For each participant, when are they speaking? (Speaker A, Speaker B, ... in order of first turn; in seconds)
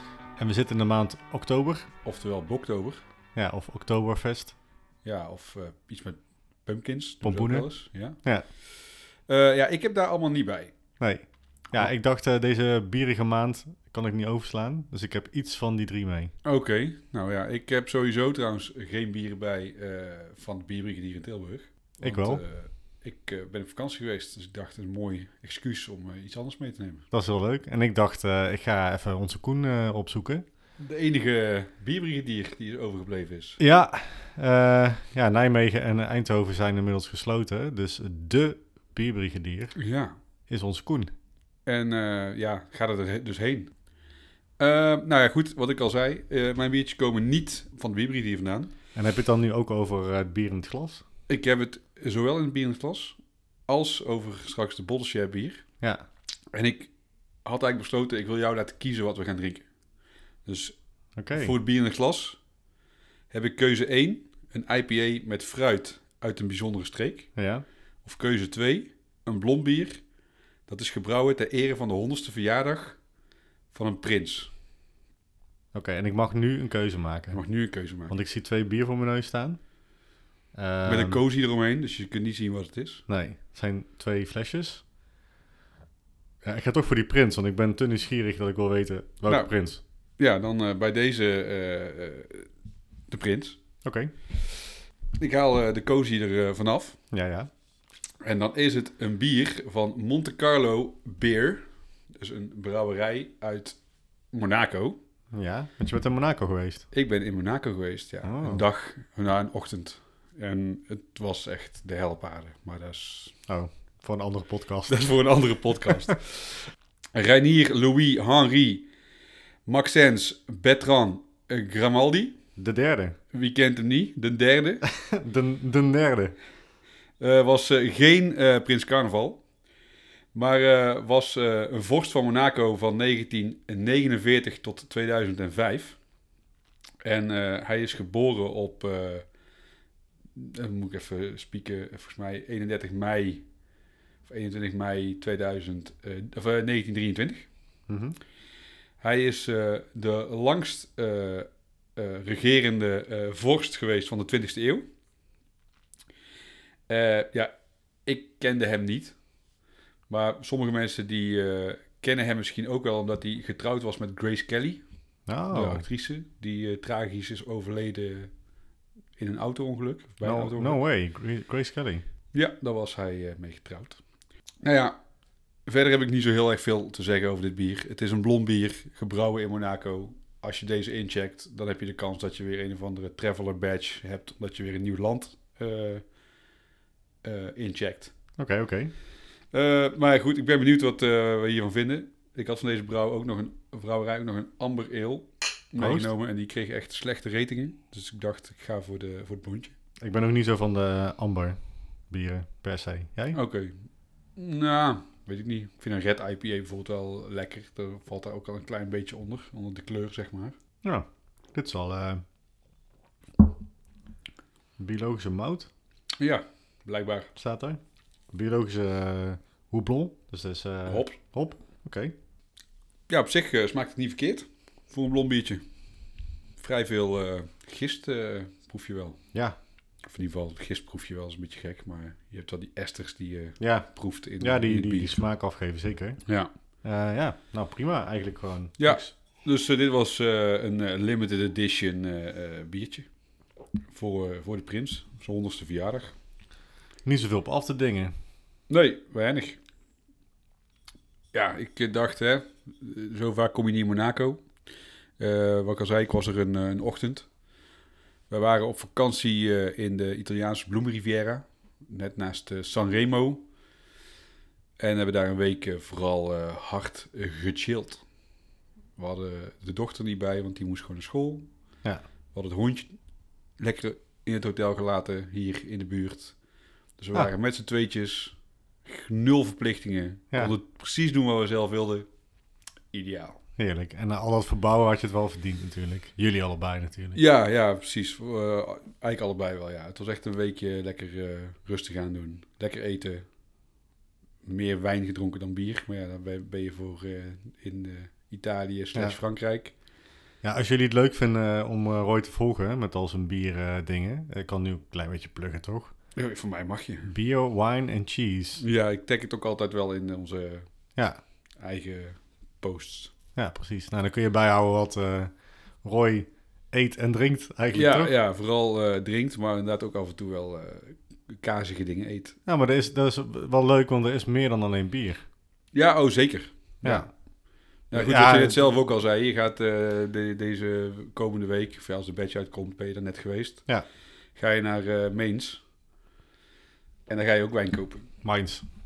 Speaker A: 0.4-1.9, 3.4-4.5, 7.2-7.7, 11.0-16.3, 22.0-22.4, 27.1-30.4, 33.6-39.8, 40.5-41.1, 48.9-51.0, 61.2-61.5, 67.3-67.6, 75.7-77.4, 78.1-79.6, 80.5-81.2, 83.1-84.8, 86.4-89.8, 93.8-94.1, 97.1-97.5, 105.3-106.8, 108.2-108.6, 113.5-115.1, 122.6-123.2, 124.8-126.3, 147.9-148.2, 165.3-165.8, 170.2-172.0, 188.4-188.9, 195.8-196.1, 200.0-201.6, 202.1-203.4, 210.8-212.2, 214.8-215.7, 217.3-217.8, 218.3-222.1, 233.6-236.2, 236.8-239.1, 247.1-248.1, 283.6-287.2, 300.4-305.9, 307.1-308.6, 313.4-315.3, 315.8-318.1, 322.5-325.2, 326.8-327.1, 327.9-328.7, 338.2-338.6
Speaker B: 2.0-3.0, 5.0-8.2, 9.3-10.7, 16.4-27.0, 30.8-33.6, 39.8-40.1, 41.6-43.7, 44.6-48.7, 51.3-55.6, 56.5-56.9, 57.4-59.6, 60.4-60.8, 61.3-62.4, 63.3-67.3, 68.0-70.0, 70.7-73.0, 73.7-74.5, 77.3-78.1, 80.8-83.0, 89.3-89.5, 90.2-92.5, 93.1-93.6, 95.2-97.0, 98.2-101.6, 102.1-103.8, 104.3-105.0, 106.9-113.4, 114.9-118.9, 119.7-122.3, 123.3-124.8, 127.2-129.4, 130.3-136.0, 137.0-139.3, 140.3-143.4, 144.2-147.5, 149.0-154.9, 156.9-157.5, 158.1-159.2, 160.1-164.8, 165.5-168.3, 169.2-170.8, 172.3-174.0, 174.6-175.0, 175.7-186.0, 187.2-188.1, 189.5-199.7, 203.3-203.8, 204.3-210.6, 216.2-217.3, 220.9-221.1, 223.1-225.6, 226.6-229.2, 230.0-235.2, 238.8-243.1, 243.9-246.1, 248.7-249.6, 251.3-254.4, 255.2-257.3, 258.3-263.4, 264.8-268.0, 269.0-271.5, 272.3-272.9, 273.6-276.3, 277.0-278.3, 278.9-282.1, 282.9-283.4, 287.1-293.2, 294.4-299.7, 306.1-307.1, 308.6-310.6, 311.6-313.1, 317.7-322.4, 325.7-327.0, 327.9-333.6, 334.4-335.6, 337.1-338.1